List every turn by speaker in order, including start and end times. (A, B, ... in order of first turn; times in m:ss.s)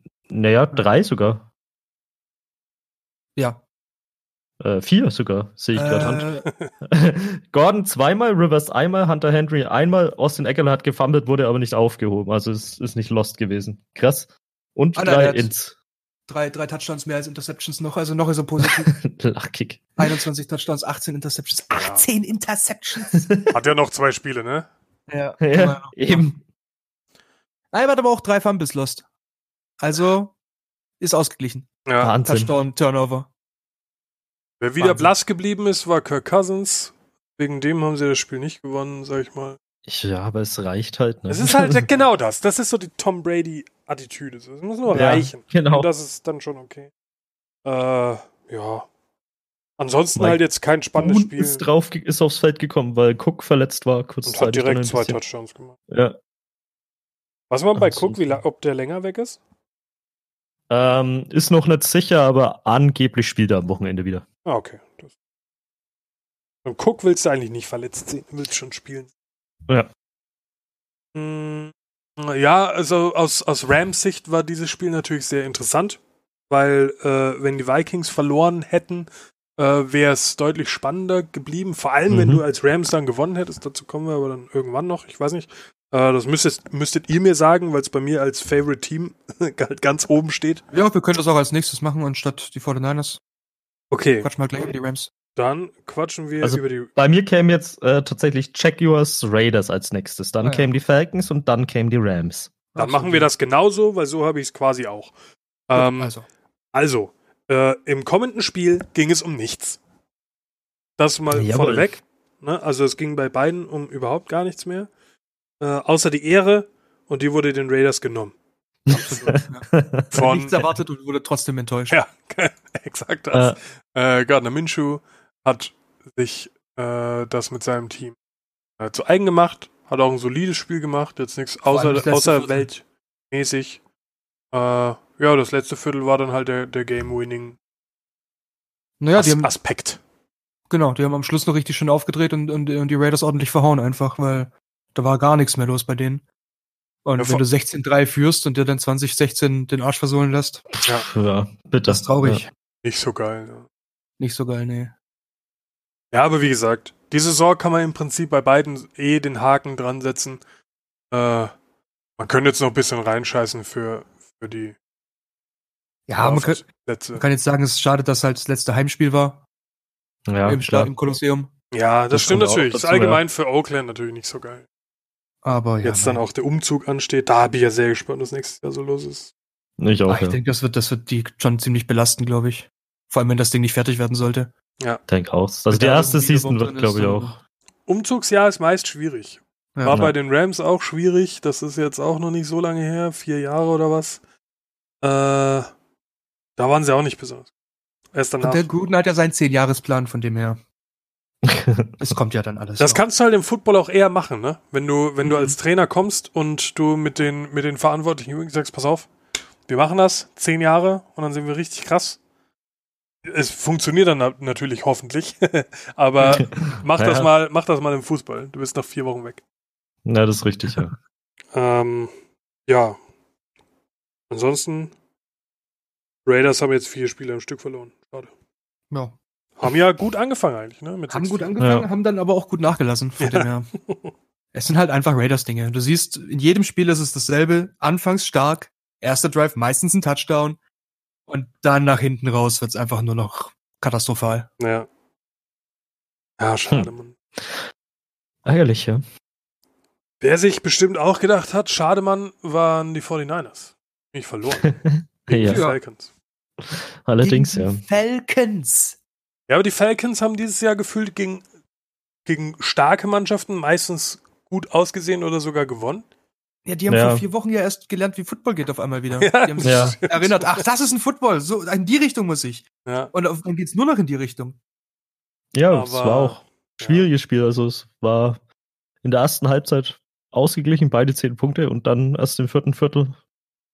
0:00.3-0:01.4 A
0:03.4-0:03.6 B
0:04.6-0:06.3 A
0:05.7-0:06.5 B
0:06.4-0:06.7 C
0:06.8-0:15.7 A
0:14.9-0:15.5 B
0:16.3-0:18.9 B
0:18.6-0:20.2 A
0:20.0-0:23.3 B
0:21.7-0:22.0 C
0:23.1-0:23.5 A
0:23.5-0:24.7 C
0:25.1-0:26.4 B
0:25.4-0:26.3 A
0:27.7-0:29.0 B
0:29.8-0:30.3 B
0:31.0-0:31.7 B
0:31.9-0:32.1 C
0:32.0-0:32.5 A
0:32.2-0:33.3 B
0:34.6-0:39.6 C
0:34.8-0:35.1 B
0:39.9-0:41.8 A
0:41.3-0:46.9 C
0:44.9-0:45.9 A
0:47.6-0:48.9 C
0:49.8-0:51.6 C
0:50.2-0:50.4 A
0:50.9-0:55.2 A
0:54.2-0:55.8 C
0:55.9-0:56.2 A
0:57.5-0:59.4 C
0:57.8-0:58.3 A
1:00.7-1:04.2 A
1:04.4-1:05.1 C
1:06.6-1:09.1 C
1:11.1-1:30.6 C
1:22.1-1:22.4 A
1:30.7-1:33.2 B
1:33.9-1:34.3 C
1:34.2-1:35.1 B
1:35.3-1:36.9 C
1:36.4-1:42.5 A
1:40.4-1:40.7 B
1:42.7-1:43.3 B
1:42.8-1:45.1 C
1:45.7-1:46.1 C
1:45.7-1:46.3 B
1:46.7-1:49.8 C
1:51.0-1:54.9 C
1:51.3-1:51.9 A
1:55.6-1:58.3 C
1:58.8-2:00.1 A
1:58.9-2:02.0 B
1:58.9-1:59.4 C
2:00.1-2:00.6 C
2:01.9-2:08.2 C
2:03.3-2:03.6 A
2:08.8-2:13.8 C
2:11.6-2:12.7 B
2:14.5-2:17.6 C
2:19.0-2:19.5 B
2:19.1-2:20.0 C
2:20.7-2:26.2 B
2:27.0-2:30.7 B
2:27.2-2:27.4 C
2:30.9-2:32.4 A
2:31.9-2:32.5 B
2:32.8-2:33.6 C
2:34.2-2:34.9 B
2:36.1-2:40.4 C
2:41.1-2:41.5 C
2:42.2-2:44.8 C
2:46.1-2:46.6 B
2:46.2-2:47.2 C
2:47.2-2:49.4 B
2:50.3-2:50.9 A
2:50.4-2:51.5 B
2:51.7-2:54.6 C
2:52.1-2:53.2 A
2:55.4-2:56.2 B
2:55.8-2:59.3 C
2:59.8-3:00.4 A
3:00.1-3:04.5 B
3:05.1-3:07.4 A
3:05.7-3:07.4 B
3:07.9-3:14.2 C
3:09.8-3:10.0 B
3:09.9-3:10.1 A
3:15.0-3:15.7 C
3:16.6-3:17.5 C
3:18.1-3:18.7 C
3:18.4-3:20.6 B
3:21.4-3:22.1 A
3:22.0-3:23.0 B
3:22.8-3:29.1 C
3:25.2-3:25.6 B
3:29.7-3:32.2 C
3:33.2-3:39.4 C
3:36.3-3:37.3 A
3:40.0-3:40.9 A
3:41.5-3:42.1 C
3:42.7-3:43.0 C
3:44.3-3:44.9 C
3:46.2-3:48.3 C
3:49.6-3:51.5 C
3:51.1-3:53.7 B
3:51.6-3:51.9 A
3:53.2-3:54.1 C
3:54.5-4:00.6 B
4:01.3-4:04.5 B
4:04.6-4:04.9 C
4:06.4-4:07.2 C
4:06.7-4:07.6 A
4:08.4-4:09.0 A
4:10.2-4:14.7 C
4:14.6-4:15.6 A
4:15.3-4:16.1 C
4:15.4-4:15.8 B
4:16.6-4:17.8 A
4:17.2-4:19.0 B
4:19.5-4:21.4 C
4:22.2-4:26.0 C
4:26.6-4:34.6 B
4:26.9-4:27.2 A
4:29.2-4:30.6 C
4:29.6-4:30.0 A
4:32.8-4:33.1 C
4:35.5-4:38.4 A
4:35.7-4:37.1 C
4:39.0-4:43.2 A